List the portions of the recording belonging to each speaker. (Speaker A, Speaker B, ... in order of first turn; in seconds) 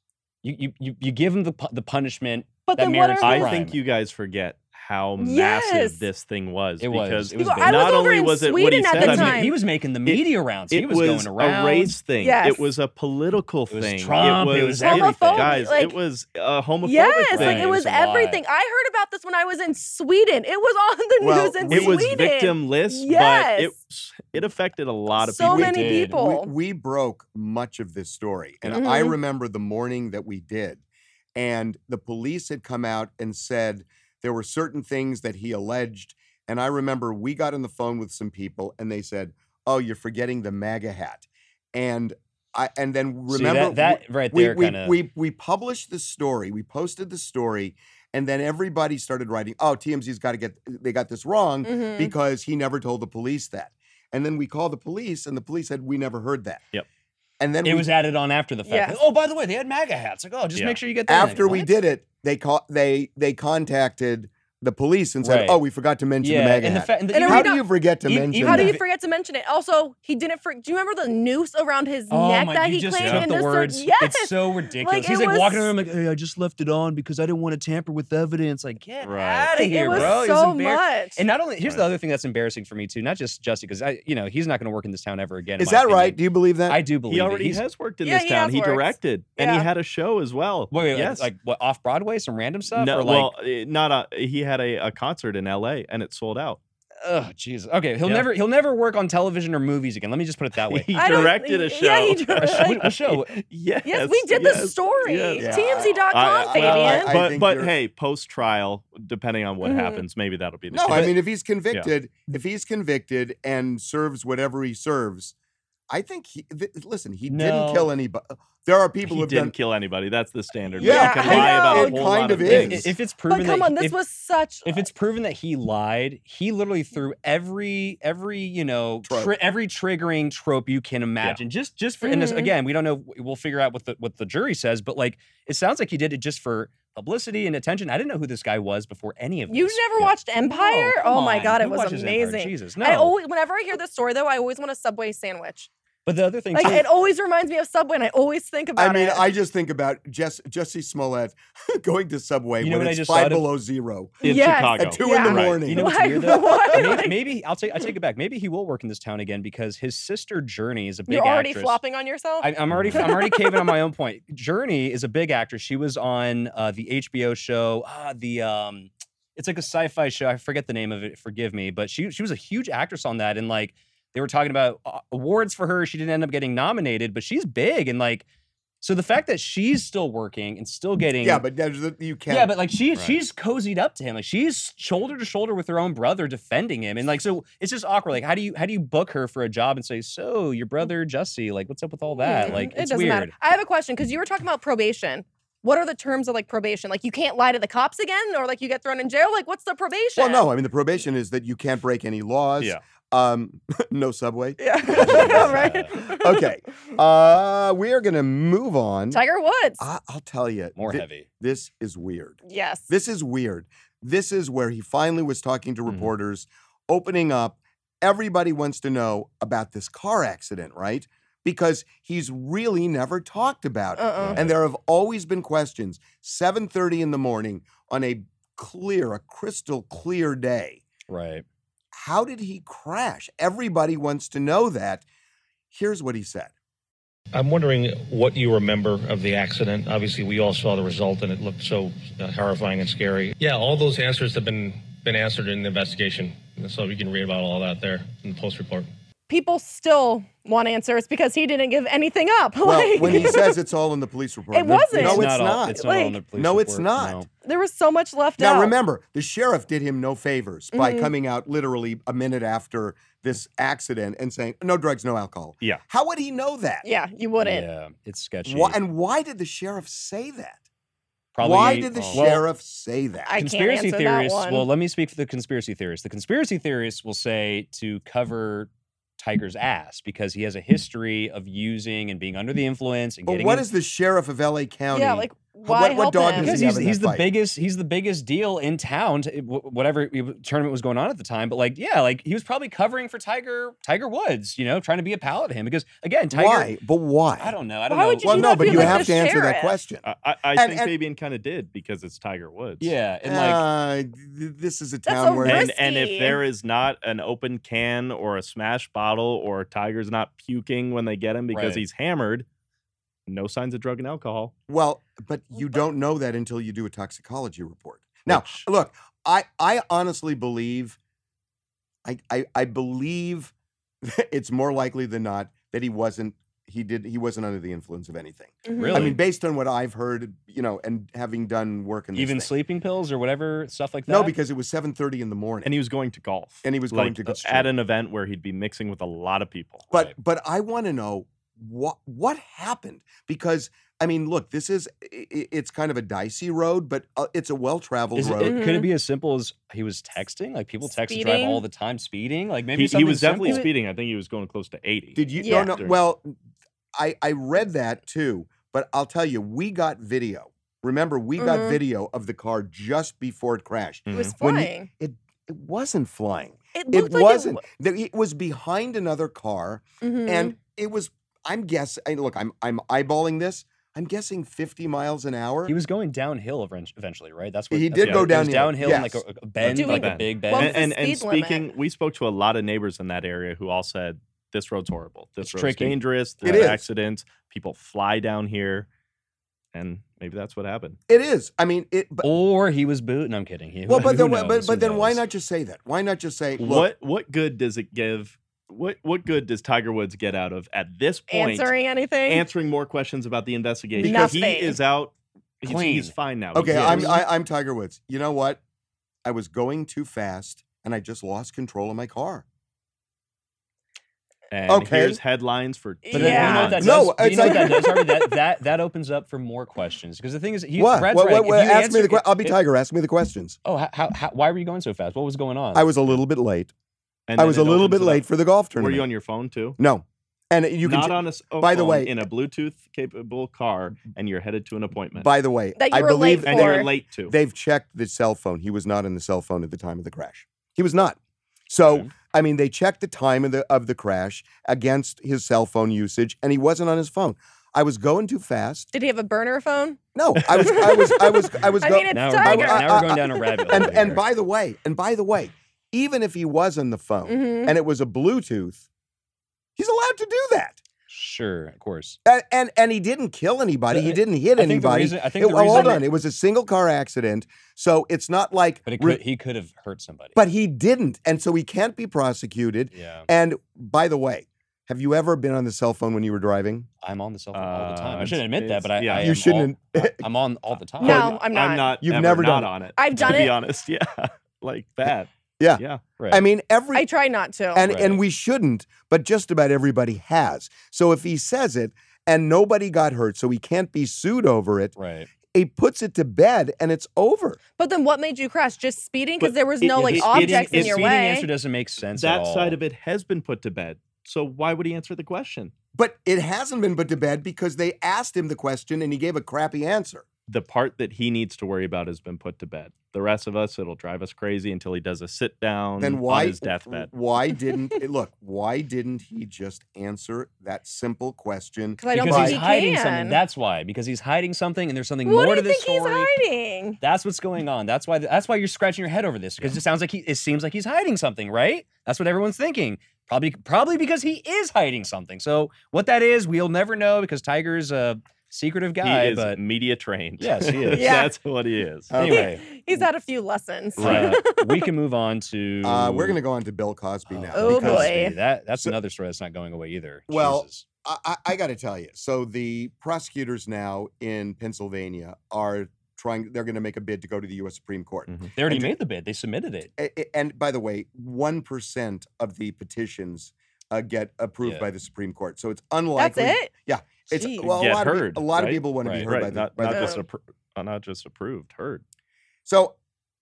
Speaker A: 0.4-3.8, 6.8-8.0, 8.9-11.9, 13.7-15.7, 17.3-18.4, 25.5-26.2, 43.3-45.0, 57.6-61.7, 65.2-65.6, 66.2-68.8, 72.1-87.6, 90.7-93.3, 97.0-101.3, 102.4-103.4, 117.3-117.9, 122.4-124.0, 124.6-143.1, 146.1-146.9, 152.6-153.5, 155.6-161.8, 162.4-178.2, 178.8-181.4, 182.3-193.3, 204.9-205.9, 210.8-211.2, 224.2-224.5, 231.1-231.4, 254.9-257.3, 267.4-268.8, 271.3-272.4, 273.4-283.7, 286.4-296.7, 297.4-299.2, 302.8-303.6, 311.5-311.8, 328.7-329.2, 332.1-334.3, 348.1-353.7, 375.6-380.8, 385.4-386.7, 392.2-395.2, 405.6-407.2, 416.1-422.6, 423.6-425.9, 452.1-454.2, 461.1-462.2, 463.9-466.1, 468.9-470.4, 472.9-473.3, 477.0-481.3, 483.2-483.4, 487.9-488.2, 495.0-495.3, 499.9-502.8, 522.1-526.3, 527.0-539.6, 540.4-541.1, 542.1-542.6, 544.0-546.4, 547.3-550.8, 558.5-559.9, 569.0-569.3
Speaker B: 2.7-3.5, 5.2-6.0, 7.4-9.5, 12.2-12.7, 14.8-16.0, 16.8-23.7, 25.2-26.5, 28.7-29.1, 51.6-52.1, 58.6-59.0, 67.1-67.6, 68.4-75.7, 79.5-81.2, 88.0-89.7, 100.9-102.8, 103.8-107.1, 109.6-110.0, 120.8-122.1, 123.3-124.9, 132.0-132.5, 139.5-145.7, 146.5-149.2, 154.2-157.2, 161.1-163.8, 192.2-200.4, 204.6-206.5, 209.1-209.8, 212.4-212.9, 224.0-224.4, 249.3-253.6, 254.5-256.2, 257.4-258.7, 260.7-261.1, 266.8-267.7, 273.3-274.7, 284.9-286.6, 297.9-299.7, 305.1-306.4, 328.6-329.1, 348.4-348.9, 350.9-351.6, 355.4-355.8, 361.4-361.8, 364.1-364.9, 366.7-367.6, 370.0-370.5, 379.7-381.7, 401.3-402.4, 404.0-404.8, 416.1-416.9, 417.4-418.0, 435.8-436.9, 448.9-450.0, 450.5-453.9, 457.3-457.7, 481.0-482.0, 483.0-483.5, 486.9-487.9, 497.8-501.5, 522.0-523.4, 525.2-527.0, 540.9-541.3, 542.2-544.9, 547.5-548.3, 566.2-566.7, 567.3-567.7, 569.9-570.2
Speaker C: 3.2-9.5, 10.1-17.7, 21.7-25.9, 73.0-73.3, 79.0-80.1, 87.1-91.3, 92.7-96.6, 100.7-111.2, 119.0-122.9, 154.2-155.6, 162.7-163.1, 300.0-302.9, 305.4-312.4, 313.3-314.5, 318.3-318.7, 335.6-339.9, 352.7-356.0, 364.1-364.3, 378.0-378.3, 379.6-388.9, 389.7-391.0, 396.6-401.7, 402.2-407.2, 414.5-417.1, 427.3-428.2, 428.8-429.8, 430.8-435.3, 436.4-437.3, 477.5-479.3, 481.0-486.0, 499.4-501.1, 502.1-505.7, 510.5-517.1, 539.0-542.1, 544.0-544.4, 567.6-572.0
Speaker D: 21.2-22.2, 25.4-30.8, 31.3-56.6, 57.4-57.9, 61.1-68.8, 85.6-86.8, 105.4-107.7, 110.7-115.3, 115.9-119.5, 120.8-122.9, 129.0-129.3, 148.8-154.2, 154.7-156.6, 181.2-182.5, 200.2-209.2, 209.8-230.8, 231.9-235.0, 235.7-236.5, 252.6-257.2, 258.4-266.9, 268.4-270.6, 271.4-273.4, 283.2-287.3, 296.3-297.6, 298.2-300.9, 303.2-305.7, 314.7-321.0, 322.0-332.5, 334.1-335.7, 336.6-337.7, 339.9-348.6, 355.1-356.4, 356.9-375.7, 377.7-379.2, 386.4-386.8, 391.1-392.3, 393.9-396.9, 404.0-404.3, 406.5-408.6, 409.2-412.4, 414.7-415.2, 416.4-418.0, 420.8-423.6, 425.7-426.7, 427.4-429.1, 429.8-432.1, 435.1-441.2, 441.7-448.9, 450.1-458.8, 459.8-460.8, 462.2-469.2, 470.4-476.9, 479.1-480.2, 481.0-481.4, 482.0-482.7, 485.6-487.1, 487.7-494.9, 495.5-497.6, 505.9-510.2, 516.0-522.6, 542.1-542.6, 545.8-548.9, 550.3-559.0, 560.0-570.2, 572.6-573.0
Speaker E: 237.3-248.9